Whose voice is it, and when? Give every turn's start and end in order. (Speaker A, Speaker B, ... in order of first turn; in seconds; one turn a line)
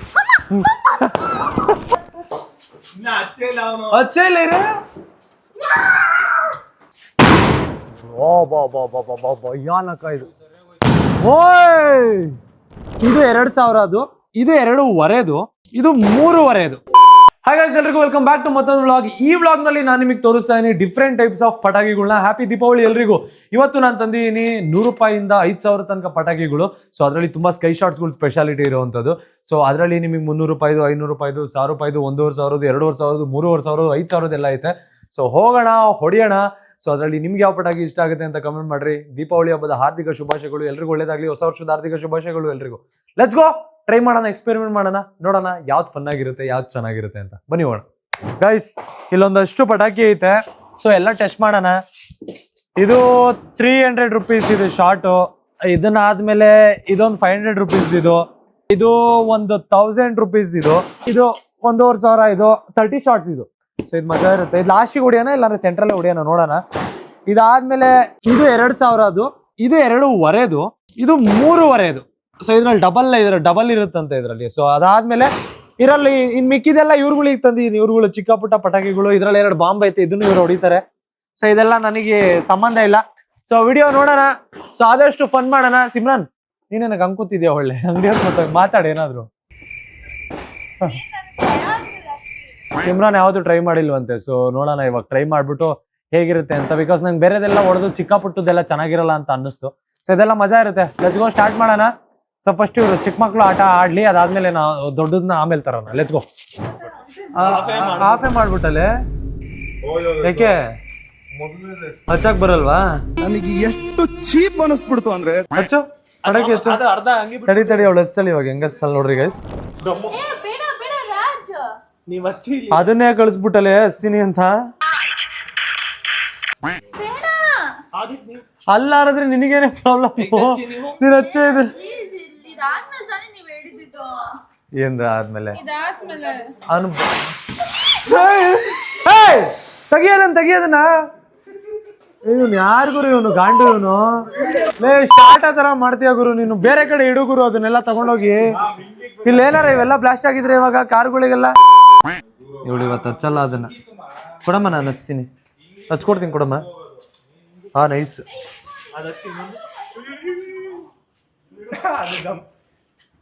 Speaker A: 0.5-1.3
Speaker B: 2.9-3.9
Speaker A: 3.9-4.8
Speaker A: 7.9-10.3
Speaker A: 11.2-12.4
Speaker A: 13.0-16.8
Speaker A: 17.4-47.9
Speaker A: 48.4-51.8
Speaker A: 52.8-66.6
Speaker A: 67.3-80.8
Speaker A: 81.4-89.3
Speaker C: 90.8-92.5
Speaker A: 92.8-106.2
Speaker C: 106.8-107.6
Speaker B: 107.3-108.3
Speaker A: 107.3-108.9
Speaker A: 110.2-110.7
Speaker A: 112.1-113.0
Speaker D: 113.2-115.5
Speaker A: 115.5-116.9
Speaker B: 116.2-117.9
Speaker A: 117.4-119.4
Speaker B: 119.8-120.1
Speaker C: 120.0-121.8
Speaker B: 122.0-122.9
Speaker A: 122.7-124.5
Speaker C: 126.9-127.8
Speaker B: 127.9-128.4
Speaker A: 128.7-131.7
Speaker B: 130.2-131.0
Speaker C: 131.0-134.4
Speaker A: 134.8-135.6
Speaker C: 135.5-136.5
Speaker A: 136.7-137.2
Speaker A: 138.0-141.1
Speaker A: 142.2-148.6
Speaker B: 148.6-149.5
Speaker A: 149.2-151.6
Speaker A: 152.6-153.7
Speaker A: 154.4-155.3
Speaker A: 155.9-156.7
Speaker A: 157.7-158.2
Speaker C: 158.4-159.0
Speaker B: 158.9-160.3
Speaker C: 159.7-160.6
Speaker B: 161.6-162.4